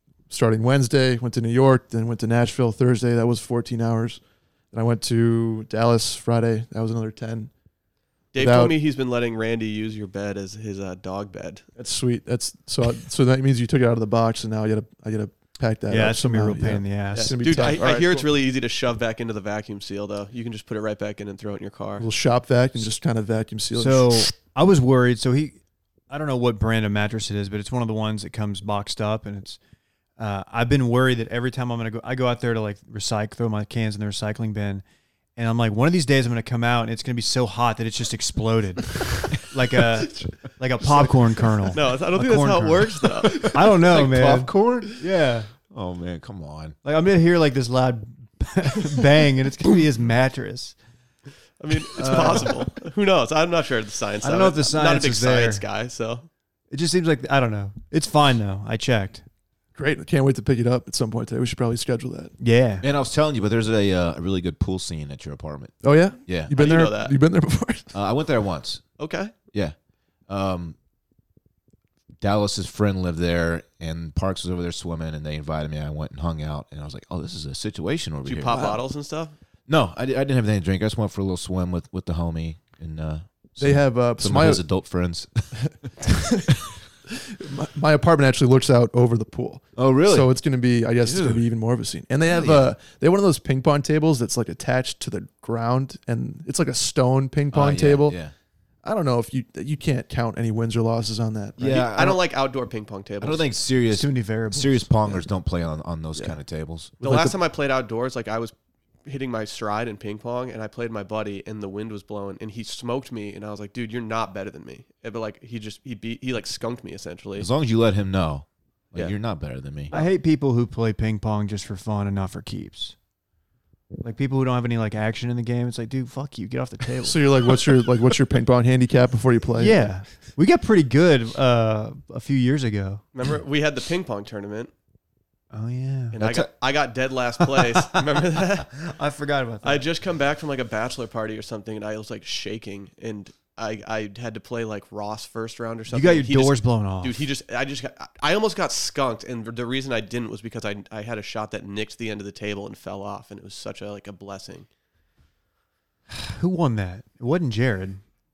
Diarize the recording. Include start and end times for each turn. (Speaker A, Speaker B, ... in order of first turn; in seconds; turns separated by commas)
Speaker A: 0.3-4.2, Speaker A: 4.7-7.5, Speaker B: 8.3-11.6, Speaker A: 8.3-8.7, Speaker A: 11.8-18.3, Speaker C: 15.9-17.8, Speaker B: 17.1-22.1, Speaker A: 22.0-24.3, Speaker C: 23.7-25.6, Speaker C: 26.1-29.6, Speaker C: 30.2-34.8, Speaker C: 35.4-45.5, Speaker B: 41.7-43.4, Speaker D: 43.2-45.0, Speaker D: 45.7-46.8, Speaker C: 46.8-50.8, Speaker B: 51.6-56.3, Speaker A: 52.0-52.6, Speaker C: 52.0-52.5, Speaker C: 54.2-55.6, Speaker C: 56.7-59.2, Speaker A: 59.8-62.3, Speaker C: 62.4-62.8, Speaker D: 62.8-66.5, Speaker A: 65.8-68.0, Speaker B: 66.5-67.2, Speaker D: 67.9-68.8, Speaker B: 69.0-69.3, Speaker D: 70.3-70.8, Speaker D: 72.2-78.6, Speaker B: 78.2-79.3, Speaker A: 78.5-78.8, Speaker D: 79.7-86.6, Speaker A: 83.6-84.6, Speaker A: 86.1-86.5, Speaker A: 87.1-98.2, Speaker D: 89.8-90.3, Speaker D: 91.0-91.5, Speaker D: 92.3-92.7, Speaker D: 97.5-98.3, Speaker A: 98.8-101.7, Speaker D: 101.6-102.2, Speaker B: 101.6-103.5, Speaker D: 103.2-106.9, Speaker C: 103.9-104.9, Speaker A: 107.0-107.3, Speaker B: 107.0-108.5, Speaker B: 109.0-117.5, Speaker D: 117.4-119.9, Speaker C: 119.9-123.0, Speaker C: 124.0-127.3, Speaker A: 127.0-129.9, Speaker C: 129.6-133.0, Speaker B: 133.1-134.7, Speaker C: 135.5-136.2, Speaker B: 136.1-138.7, Speaker D: 136.2-136.5, Speaker C: 137.6-139.8, Speaker B: 139.6-154.7, Speaker C: 145.9-147.2, Speaker C: 156.1-158.0